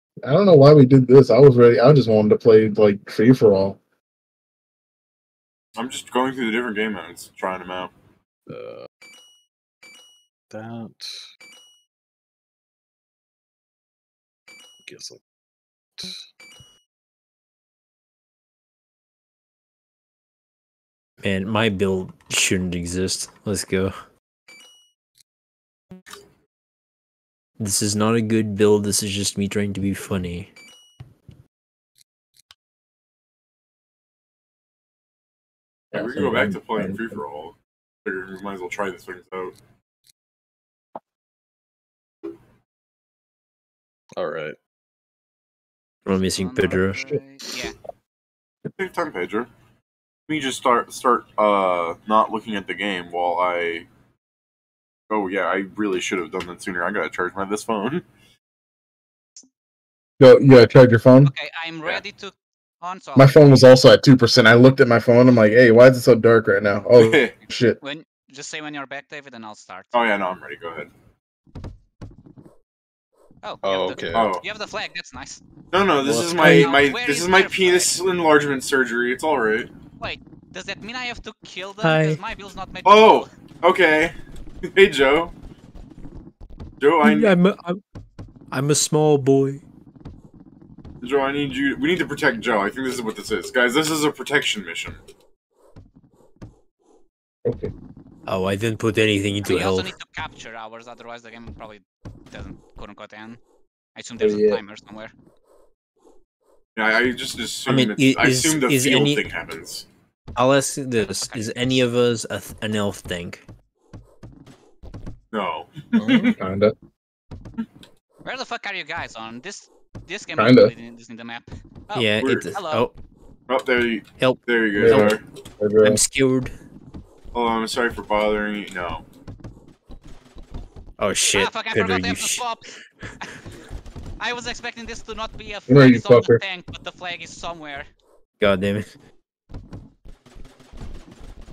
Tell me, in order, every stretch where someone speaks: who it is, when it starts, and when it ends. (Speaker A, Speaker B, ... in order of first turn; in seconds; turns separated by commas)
Speaker A: 0.2-3.8, Speaker B: 5.8-7.9, Speaker C: 8.5-8.9, Speaker C: 10.5-11.2, Speaker C: 14.8-15.2, Speaker C: 16.0-16.3, Speaker D: 21.2-23.9, Speaker D: 27.6-30.5, Speaker A: 35.9-37.2, Speaker B: 35.9-39.5, Speaker C: 44.2-44.6, Speaker D: 46.0-47.2, Speaker E: 46.4-47.8, Speaker B: 48.8-49.5, Speaker B: 50.3-53.9, Speaker B: 55.1-58.0, Speaker A: 60.2-61.3, Speaker E: 61.2-63.6, Speaker A: 63.1-67.8, Speaker B: 67.0-67.3, Speaker E: 67.8-69.9, Speaker B: 69.9-70.9, Speaker E: 73.4-75.4, Speaker C: 73.6-74.4, Speaker B: 74.1-74.4, Speaker B: 75.7-79.7, Speaker C: 76.0-76.7, Speaker E: 76.4-77.9, Speaker E: 80.0-83.3, Speaker D: 81.8-82.2, Speaker B: 82.8-84.1, Speaker B: 84.7-85.3, Speaker B: 86.8-87.3, Speaker D: 87.0-87.8, Speaker D: 88.5-89.6, Speaker B: 91.0-95.0, Speaker A: 97.4-97.7, Speaker D: 98.3-99.9, Speaker E: 99.4-103.4, Speaker E: 104.0-105.1, Speaker A: 104.2-104.6, Speaker B: 106.8-109.8, Speaker D: 107.7-109.2, Speaker D: 110.3-113.4, Speaker E: 111.0-111.9, Speaker B: 115.3-116.4, Speaker C: 116.0-116.4, Speaker A: 116.4-116.7, Speaker E: 118.2-122.9, Speaker A: 120.3-120.7, Speaker D: 121.9-122.9, Speaker B: 122.2-122.5, Speaker B: 123.5-125.2, Speaker D: 124.2-125.2, Speaker A: 124.8-126.0, Speaker D: 125.8-126.5, Speaker B: 127.3-129.0, Speaker D: 131.0-132.4, Speaker E: 131.3-133.4, Speaker E: 134.2-137.9, Speaker A: 135.7-136.4, Speaker D: 138.4-138.9